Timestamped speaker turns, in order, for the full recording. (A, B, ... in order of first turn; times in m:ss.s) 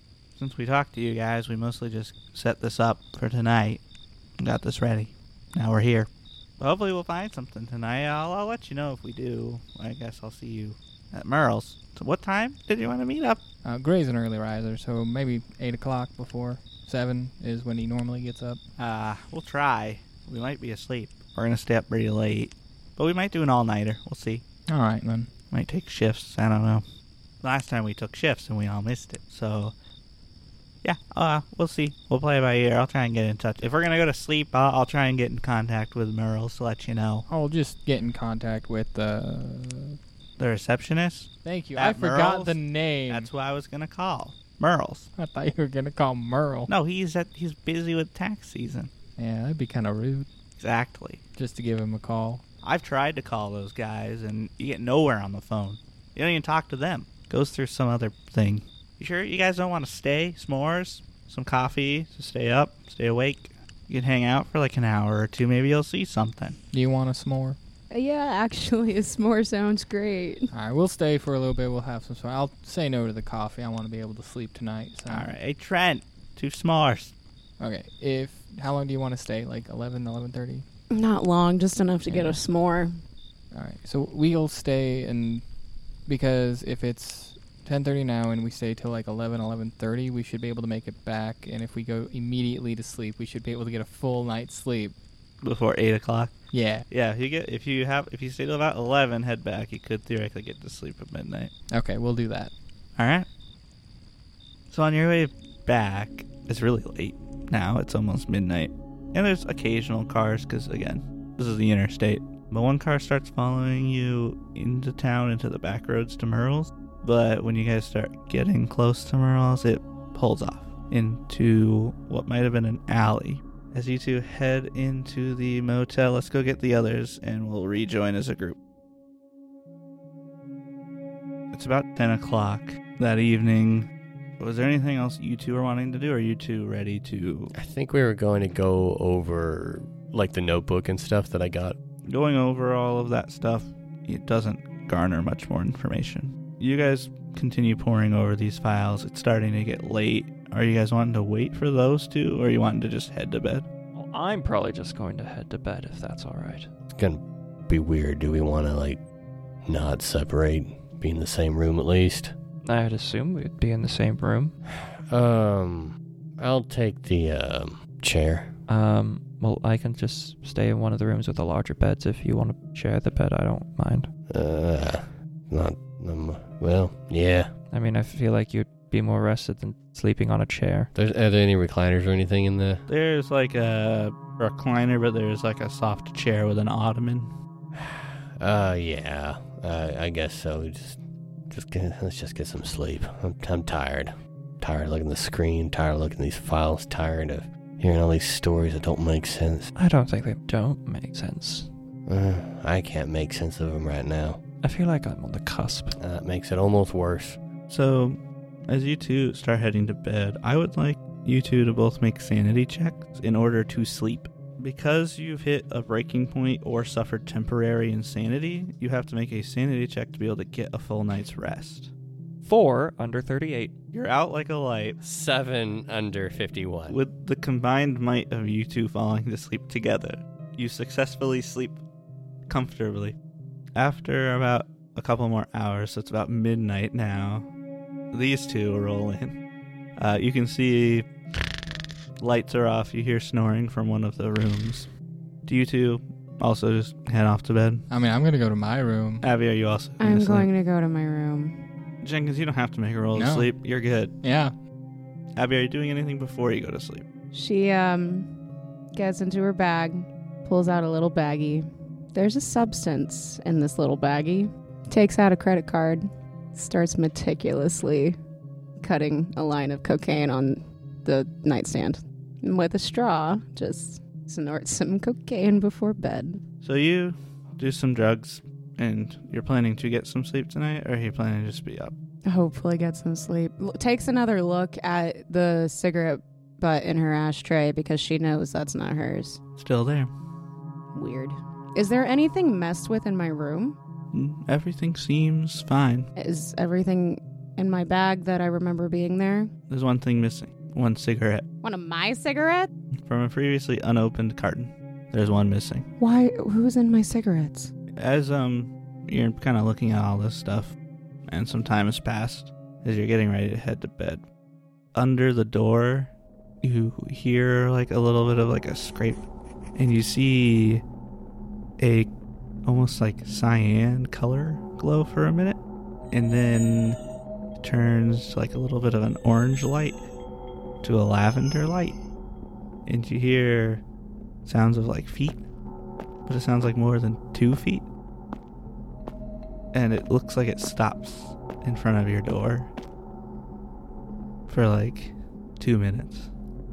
0:00.4-0:03.8 A
0:04.4-0:06.1 A
0:06.6-0:13.4 A
0:13.6-0:18.6 B
0:18.8-0:24.4 A
0:24.7-0:25.3 B
0:25.5-0:26.8 A
0:27.4-0:29.7 A
0:30.8-0:37.3 A
0:37.3-0:40.0 B
0:40.4-0:42.6 A
0:41.4-0:43.3 B
0:43.1-0:45.1 A
0:45.2-0:46.7 B
0:46.7-0:48.9 A
0:49.2-0:50.3 B
0:50.6-0:51.2 A
0:51.4-0:52.4 B
0:52.6-1:06.6 A
1:06.7-1:07.6 B
1:07.9-1:10.5 C
1:10.5-1:15.3 B
1:15.1-1:17.1 A
1:17.6-1:20.6 B
1:20.9-1:23.0 C
1:22.1-1:22.4 B
1:23.5-1:25.4 B
1:26.1-1:35.0 B
1:35.4-1:36.3 A
1:36.5-1:36.9 B
1:36.9-1:41.5 A
1:41.7-1:42.5 B
1:43.0-1:43.3 A
1:44.7-2:08.6 A
2:11.5-2:17.5 A
2:17.5-2:21.8 D
2:22.1-2:33.7 A
2:34.0-2:36.7 E
2:36.9-2:39.0 D
2:39.6-2:42.3 D
2:42.6-2:44.6 E
2:44.7-2:48.6 D
2:48.7-2:54.1 E
2:54.3-2:57.5 D
2:57.7-3:00.9 E
3:00.9-3:02.8 D
3:02.9-3:07.3 A
3:07.8-3:19.7 D
3:19.8-3:21.7 E
3:22.1-3:24.4 D
3:24.6-3:26.0 E
3:26.0-3:27.4 D
3:27.7-3:41.9 A
3:42.4-3:43.7 E
3:43.9-3:45.0 A
3:45.0-3:47.0 D
3:46.9-3:51.8 A
3:52.5-3:53.2 A
3:53.8-3:57.5 A
3:58.1-3:59.4 A
4:00.0-4:01.1 A
4:02.2-4:04.9 A
4:05.4-4:07.8 A
4:07.9-4:09.2 B
4:09.2-4:10.5 A
4:10.0-4:11.6 C
4:12.0-4:14.1 A
4:13.1-4:13.5 B
4:14.2-4:14.5 B
4:15.4-4:17.0 A
4:17.3-4:18.3 C
4:18.9-4:28.2 C
4:28.8-4:36.4 C
4:36.6-4:41.9 A
4:42.2-4:49.4 C
4:49.6-4:50.1 A
4:50.9-4:53.8 C
4:54.1-4:56.1 A
4:56.2-4:59.5 C
4:59.7-5:01.4 A
5:01.6-5:02.7 C
5:03.0-5:05.9 A
5:06.0-5:07.7 C
5:08.0-5:10.7 A
5:11.3-5:14.2 A
5:14.9-5:19.2 A
5:19.8-5:20.8 A
5:21.8-5:22.1 A
5:22.6-5:25.6 A
5:26.1-5:27.0 A
5:27.6-5:30.1 A
5:30.8-5:32.0 A
5:32.9-5:33.8 A
5:34.4-5:35.4 A
5:36.2-5:37.9 A
5:39.7-5:42.7 A
5:44.5-5:46.3 A